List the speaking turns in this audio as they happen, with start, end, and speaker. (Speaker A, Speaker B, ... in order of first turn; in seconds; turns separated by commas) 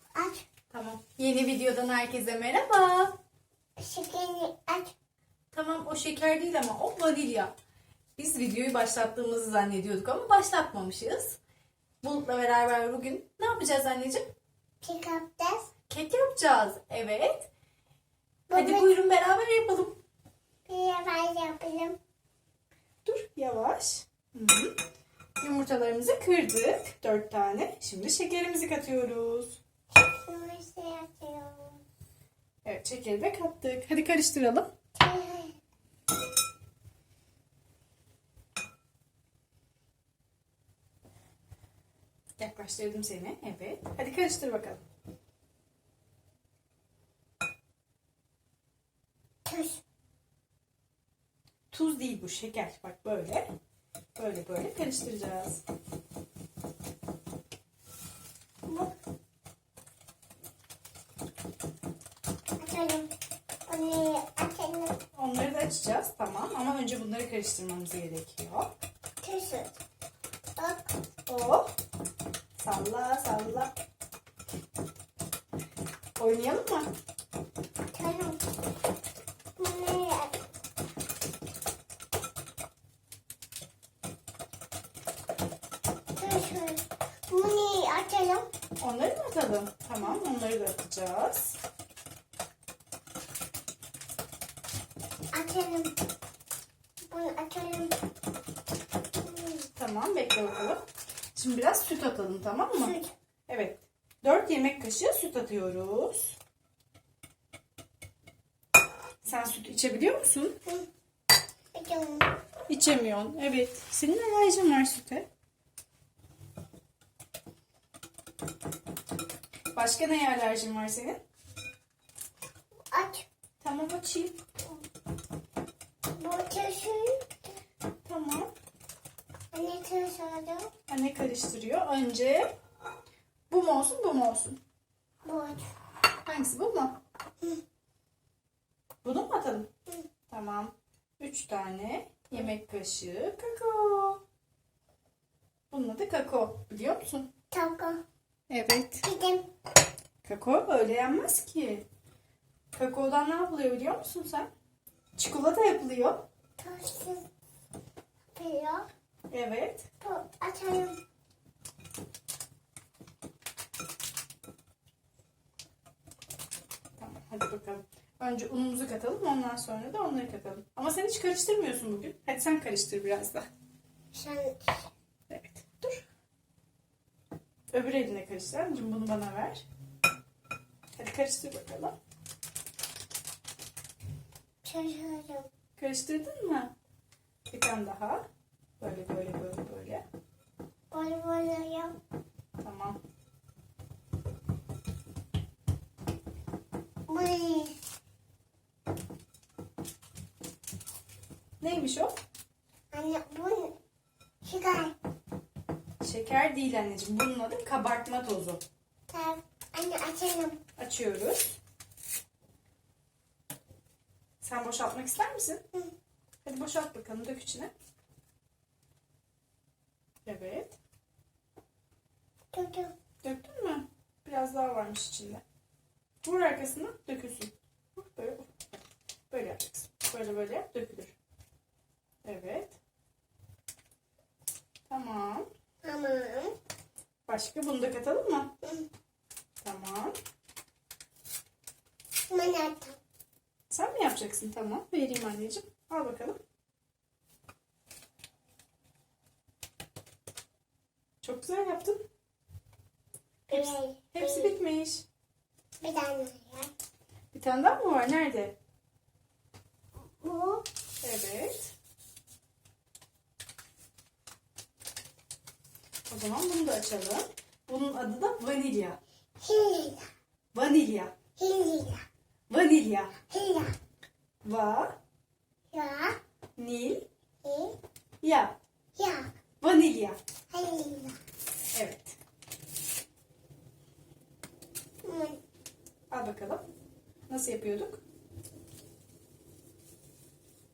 Speaker A: 0.1-0.4, Speaker B: 0.7-3.1, Speaker A: 3.8-4.9, Speaker B: 5.5-7.5, Speaker B: 8.2-11.4, Speaker B: 12.0-14.2, Speaker A: 14.8-15.7, Speaker B: 15.9-17.5, Speaker A: 18.5-18.9, Speaker B: 18.5-20.0, Speaker A: 20.7-22.0, Speaker B: 23.1-24.7, Speaker B: 25.4-29.6, Speaker A: 29.9-31.8, Speaker B: 32.6-34.7, Speaker A: 35.0-35.6, Speaker B: 42.4-44.8, Speaker A: 49.5-49.8, Speaker B: 51.7-53.5, Speaker B: 54.2-55.6, Speaker A: 58.7-58.9, Speaker A: 62.6-63.1, Speaker A: 63.7-65.0, Speaker B: 65.1-68.7, Speaker A: 69.2-69.8, Speaker A: 70.6-70.9, Speaker B: 71.2-71.7, Speaker B: 72.6-73.7, Speaker B: 76.2-76.9, Speaker A: 77.9-78.4, Speaker A: 79.5-80.4, Speaker A: 86.2-88.5, Speaker B: 88.8-91.6, Speaker A: 95.3-95.9, Speaker A: 97.1-98.0, Speaker A: 99.2-99.7, Speaker B: 99.8-100.8, Speaker B: 101.3-102.9, Speaker A: 102.8-103.1, Speaker B: 103.5-106.4, Speaker B: 109.2-110.6, Speaker A: 111.7-112.4, Speaker B: 112.7-115.3, Speaker B: 119.7-121.2, Speaker A: 122.9-123.2, Speaker B: 123.6-124.4, Speaker A: 126.2-127.3, Speaker B: 128.0-128.5, Speaker A: 129.5-130.7, Speaker B: 130.9-132.5, Speaker B: 133.5-134.6, Speaker A: 135.2-135.7, Speaker B: 136.2-137.0, Speaker B: 139.0-139.7, Speaker B: 140.3-144.2, Speaker B: 145.7-147.3, Speaker A: 147.5-148.0, Speaker B: 148.5-149.1, Speaker A: 149.0-149.5, Speaker B: 150.2-151.8, Speaker B: 152.7-154.5, Speaker B: 155.2-156.2, Speaker A: 156.6-157.2, Speaker A: 158.3-158.9, Speaker B: 159.3-159.9, Speaker A: 160.0-161.0, Speaker B: 167.0-173.4, Speaker A: 174.1-174.9, Speaker B: 175.3-176.0, Speaker B: 177.7-179.6, Speaker B: 181.0-181.9, Speaker A: 184.6-185.5, Speaker B: 185.8-186.7, Speaker B: 187.5-188.2, Speaker B: 188.8-190.0, Speaker A: 190.9-191.9, Speaker B: 192.6-193.0, Speaker A: 197.1-197.8, Speaker B: 201.6-202.1, Speaker A: 202.9-203.8, Speaker A: 204.4-204.9, Speaker B: 206.0-208.6, Speaker A: 209.1-210.6, Speaker B: 210.8-211.6, Speaker B: 214.4-215.6, Speaker B: 216.4-217.7, Speaker B: 220.2-220.8, Speaker A: 222.5-222.9, Speaker B: 223.2-225.4, Speaker B: 226.2-231.1, Speaker B: 232.2-232.8, Speaker B: 234.9-235.5, Speaker A: 235.8-236.5, Speaker B: 237.3-238.5, Speaker A: 238.6-238.9, Speaker B: 239.6-240.2, Speaker A: 242.3-243.0, Speaker B: 243.7-246.4, Speaker B: 251.2-252.0, Speaker B: 253.5-255.1, Speaker A: 253.5-254.6, Speaker A: 255.8-256.7, Speaker B: 257.3-258.6, Speaker A: 260.0-260.6, Speaker B: 261.0-261.7, Speaker B: 266.1-269.0, Speaker A: 269.4-270.1, Speaker B: 270.5-271.1, Speaker A: 271.4-272.1, Speaker B: 272.5-273.1, Speaker A: 273.3-273.8, Speaker B: 274.4-274.9, Speaker A: 275.7-276.2, Speaker B: 276.6-277.1, Speaker A: 277.4-277.8, Speaker B: 278.2-278.6, Speaker A: 278.9-279.3, Speaker B: 279.6-280.2, Speaker A: 280.5-281.2, Speaker B: 281.7-282.2, Speaker A: 285.0-285.4, Speaker B: 286.1-286.6, Speaker B: 287.3-288.0